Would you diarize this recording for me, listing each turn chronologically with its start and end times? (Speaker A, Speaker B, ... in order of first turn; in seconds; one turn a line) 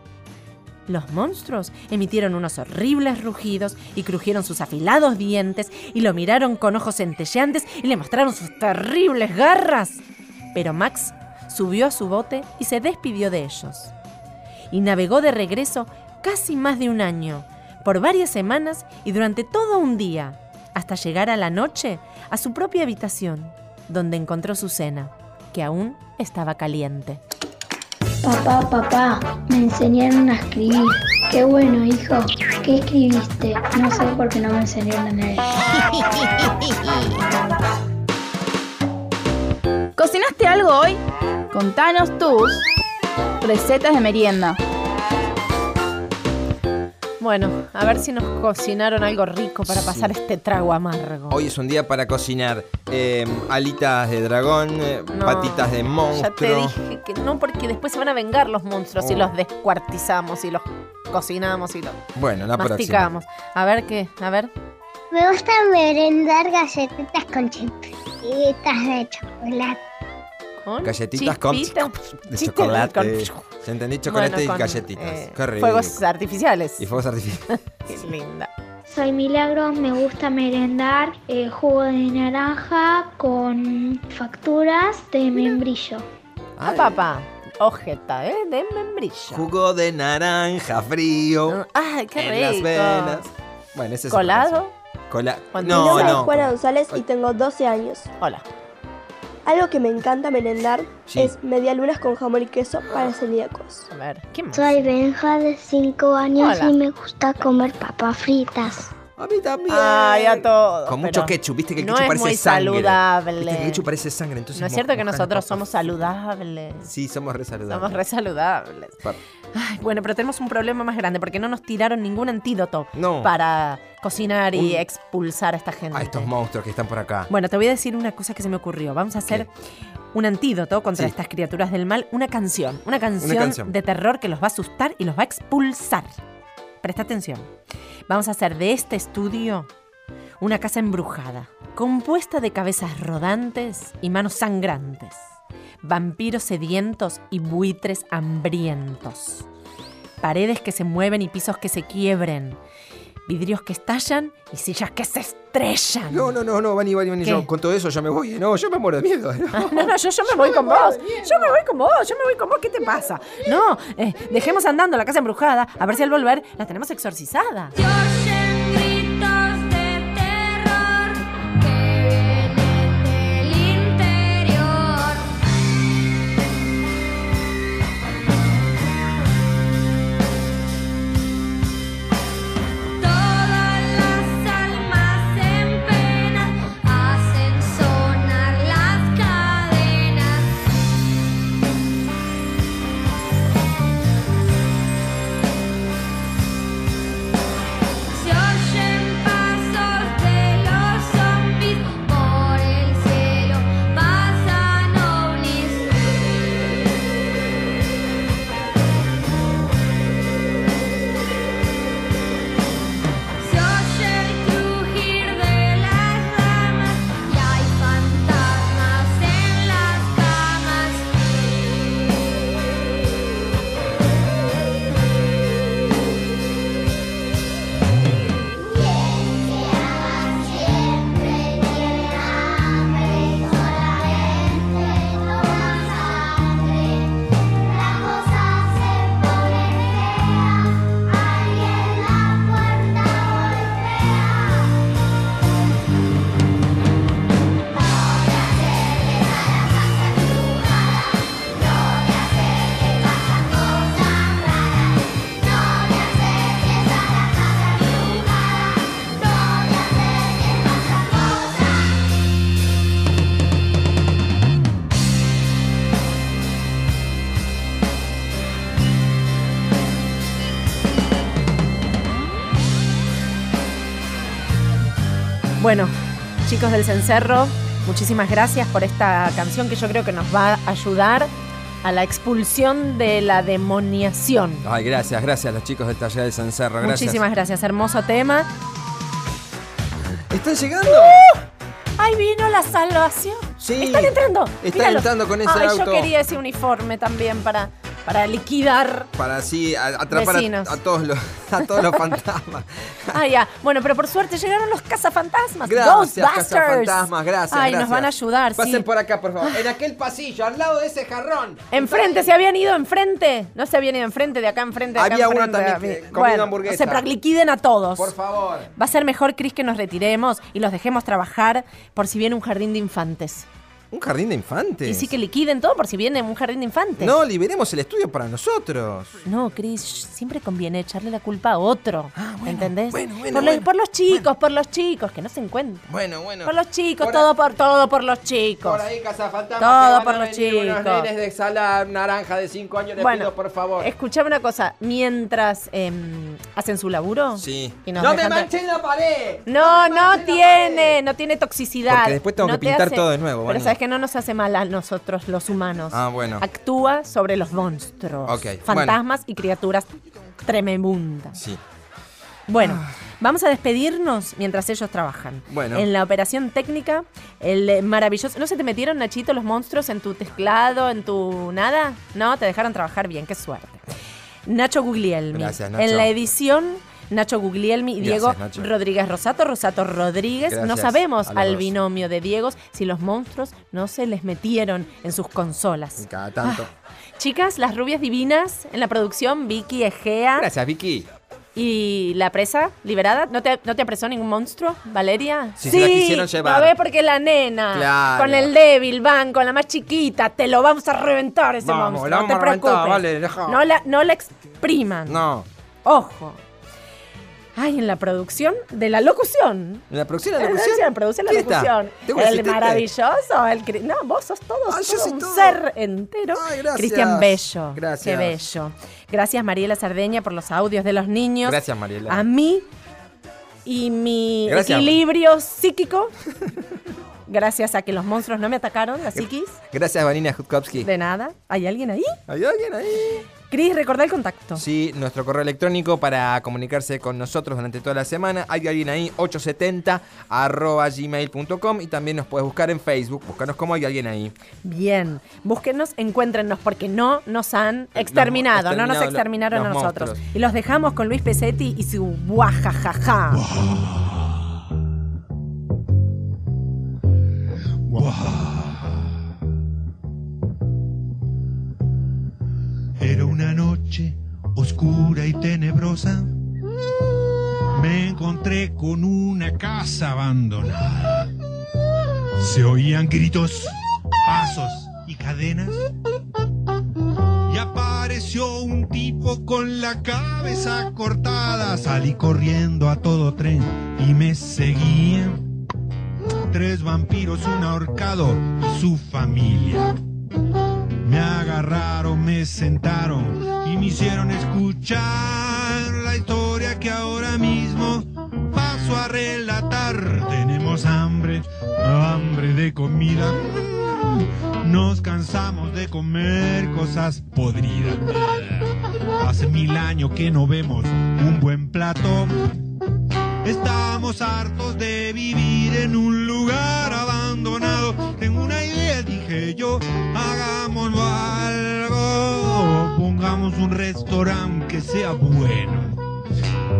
Speaker A: 0.9-10.0
Speaker A: 10.5-13.9
Speaker A: 14.7-27.2
Speaker B: 28.2-35.5
Speaker C: 40.0-41.0
Speaker C: 41.5-42.6
Speaker C: 43.4-44.6
Speaker A: 47.2-51.4
Speaker D: 49.7-50.1
Speaker D: 51.3-56.7
Speaker A: 55.1-62.0
Speaker D: 59.0-59.3
Speaker D: 62.1-63.0
Speaker A: 62.6-64.5
Speaker E: 65.1-69.8
Speaker A: 70.6-73.5
Speaker D: 70.8-76.0
Speaker A: 74.0-76.9
Speaker D: 76.8-77.4
Speaker A: 77.5-78.5
Speaker B: 78.9-86.0
Speaker D: 86.6-87.0
Speaker A: 86.6-89.5
Speaker D: 89.3-91.6
Speaker A: 91.5-93.3
Speaker D: 92.2-97.0
Speaker A: 94.1-94.7
Speaker A: 95.5-96.3
Speaker F: 95.6-98.1
Speaker A: 98.2-98.4
Speaker F: 99.5-103.9
Speaker D: 101.1-101.3
Speaker A: 103.9-104.8
Speaker E: 104.5-108.9
Speaker A: 106.4-106.7
Speaker D: 109.2-116.1
Speaker A: 109.7-113.8
Speaker A: 114.5-116.9
Speaker D: 116.8-118.0
Speaker A: 117.7-119.0
Speaker A: 119.5-126.3
Speaker D: 122.9-123.3
Speaker D: 124.5-124.8
Speaker D: 125.9-127.3
Speaker A: 127.3-129.5
Speaker A: 130.1-136.1
Speaker D: 133.2-133.7
Speaker A: 136.8-137.5
Speaker A: 138.1-139.7
Speaker A: 140.4-149.4
Speaker A: 150.2-152.6
Speaker A: 153.3-156.3
Speaker D: 156.1-161.2
Speaker A: 157.2-157.5
Speaker A: 159.5-167.7
Speaker G: 167.7-175.3
Speaker G: 183.0-190.6
Speaker G: 198.1-206.3
Speaker G: 213.4-221.7
Speaker E: 232.8-236.1
Speaker G: 239.0-239.5
Speaker G: 242.2-242.9
Speaker G: 250.1-250.7
Speaker G: 253.6-254.4
Speaker G: 255.8-258.4
Speaker G: 259.3-259.7
Speaker A: 275.6-281.3
Speaker A: 281.8-284.6
Speaker D: 284.6-287.2
Speaker A: 286.8-288.5
Speaker D: 290.3-291.3
Speaker A: 290.9-291.4
Speaker A: 292.0-299.1
Speaker D: 293.6-296.1
Speaker D: 299.1-303.2
Speaker A: 300.1-300.8
Speaker A: 303.1-308.9
Speaker D: 305.6-312.3
Speaker A: 311.7-318.1
Speaker D: 314.9-317.1
Speaker D: 317.9-318.7
Speaker A: 318.8-323.5
Speaker D: 323.9-325.1
Speaker A: 324.8-327.2
Speaker D: 327.0-329.1
Speaker A: 329.2-335.9
Speaker D: 332.1-334.2
Speaker D: 335.9-337.3
Speaker A: 336.4-338.8
Speaker D: 338.6-343.9
Speaker A: 339.6-341.1
Speaker A: 343.0-348.5
Speaker D: 347.3-350.9
Speaker A: 349.4-359.9
Speaker D: 351.9-353.8
Speaker D: 355.9-356.4
Speaker D: 358.2-359.0
Speaker A: 360.4-361.4
Speaker D: 361.3-361.6
Speaker A: 362.5-373.8
Speaker D: 362.6-362.9
Speaker D: 365.5-365.9
Speaker A: 374.4-386.6
Speaker D: 375.3-376.1
Speaker D: 378.0-378.7
Speaker D: 380.5-381.7
Speaker D: 386.0-386.7
Speaker A: 387.2-390.5
Speaker D: 390.3-391.1
Speaker A: 391.5-405.2
Speaker D: 395.6-396.7
Speaker D: 397.7-398.5
Speaker D: 401.6-403.6
Speaker D: 405.1-405.5
Speaker A: 405.8-406.4
Speaker A: 407.6-409.8
Speaker D: 409.9-412.9
Speaker A: 410.4-422.7
Speaker D: 414.7-415.6
Speaker D: 416.3-418.4
Speaker D: 421.4-422.2
Speaker A: 423.6-426.1
Speaker D: 424.4-425.0
Speaker A: 427.3-429.6
Speaker D: 429.1-430.9
Speaker A: 430.8-432.2
Speaker D: 432.3-433.3
Speaker A: 433.5-434.6
Speaker D: 434.5-444.3
Speaker A: 444.6-453.4
Speaker D: 447.9-450.2
Speaker H: 453.3-454.4
Speaker H: 457.9-459.1
Speaker H: 463.0-466.3
Speaker H: 467.7-471.3
Speaker H: 472.4-475.8
Speaker H: 477.5-485.4
Speaker H: 486.5-489.9
Speaker H: 491.0-508.5
Speaker H: 509.2-512.6
Speaker H: 513.4-526.0